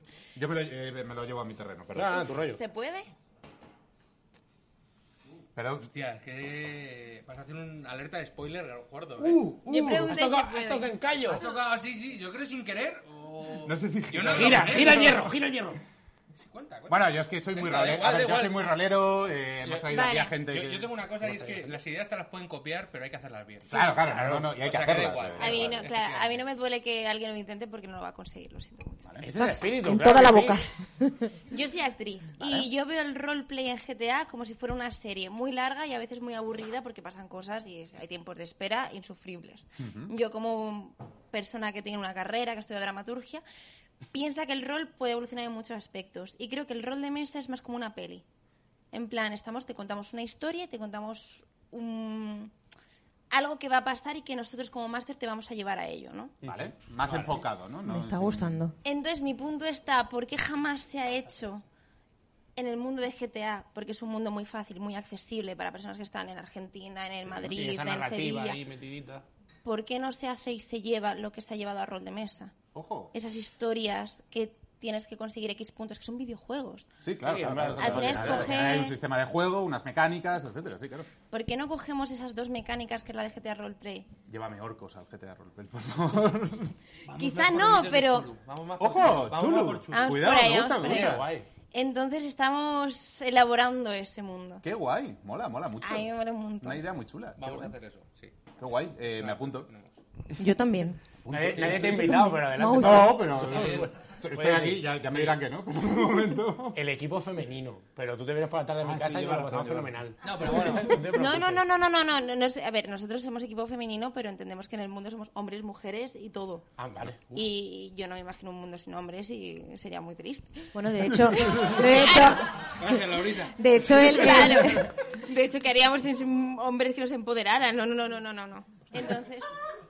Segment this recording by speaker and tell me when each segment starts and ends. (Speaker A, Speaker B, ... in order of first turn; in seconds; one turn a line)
Speaker A: 0.3-2.4
Speaker B: 1.9-2.6
Speaker C: 2.5-3.1
Speaker A: 5.5-5.9
Speaker D: 5.8-9.4
Speaker A: 9.2-10.1
Speaker C: 9.7-11.0
Speaker B: 9.7-11.4
Speaker D: 11.3-15.2
Speaker A: 13.6-15.3
Speaker B: 14.2-15.8
Speaker D: 16.4-18.7
Speaker A: 16.9-21.8
Speaker D: 19.6-23.9
Speaker C: 19.9-20.4
Speaker A: 23.6-26.0
Speaker B: 24.0-24.5
Speaker D: 24.6-26.4
Speaker C: 25.4-29.1
Speaker A: 29.1-29.5
Speaker B: 29.2-30.6
Speaker E: 29.4-31.3
Speaker C: 31.5-43.4
Speaker A: 32.4-32.6
Speaker A: 39.8-40.1
Speaker C: 44.1-48.2
Speaker C: 48.9-52.5
Speaker C: 53.3-56.3
Speaker B: 56.4-57.5
Speaker A: 56.4-58.6
Speaker E: 57.9-58.7
Speaker C: 58.8-61.6
Speaker C: 62.5-68.6
Speaker B: 67.3-69.2
Speaker C: 69.6-72.6
Speaker A: 72.7-73.1
Speaker C: 73.1-76.9
Speaker A: 77.0-81.1
Speaker B: 77.2-78.7
Speaker C: 77.8-79.0
Speaker C: 81.3-84.1
Speaker A: 84.3-86.7
Speaker D: 87.1-90.3
Speaker C: 87.2-88.3
Speaker A: 88.8-91.2
Speaker C: 89.9-94.6
Speaker B: 90.8-91.5
Speaker A: 94.6-97.7
Speaker C: 95.8-96.8
Speaker D: 97.4-98.4
Speaker A: 98.6-99.7
Speaker D: 99.1-99.9
Speaker E: 100.4-101.0
Speaker A: 101.2-106.8
Speaker B: 101.3-105.4
Speaker E: 102.4-103.3
Speaker D: 103.5-103.9
Speaker B: 106.7-111.7
Speaker A: 108.8-109.9
Speaker D: 110.2-111.0
Speaker C: 111.1-116.7
Speaker B: 116.8-117.4
Speaker C: 117.3-120.7
Speaker E: 120.7-124.9
Speaker C: 121.3-122.3
Speaker D: 122.8-124.2
Speaker C: 124.1-129.5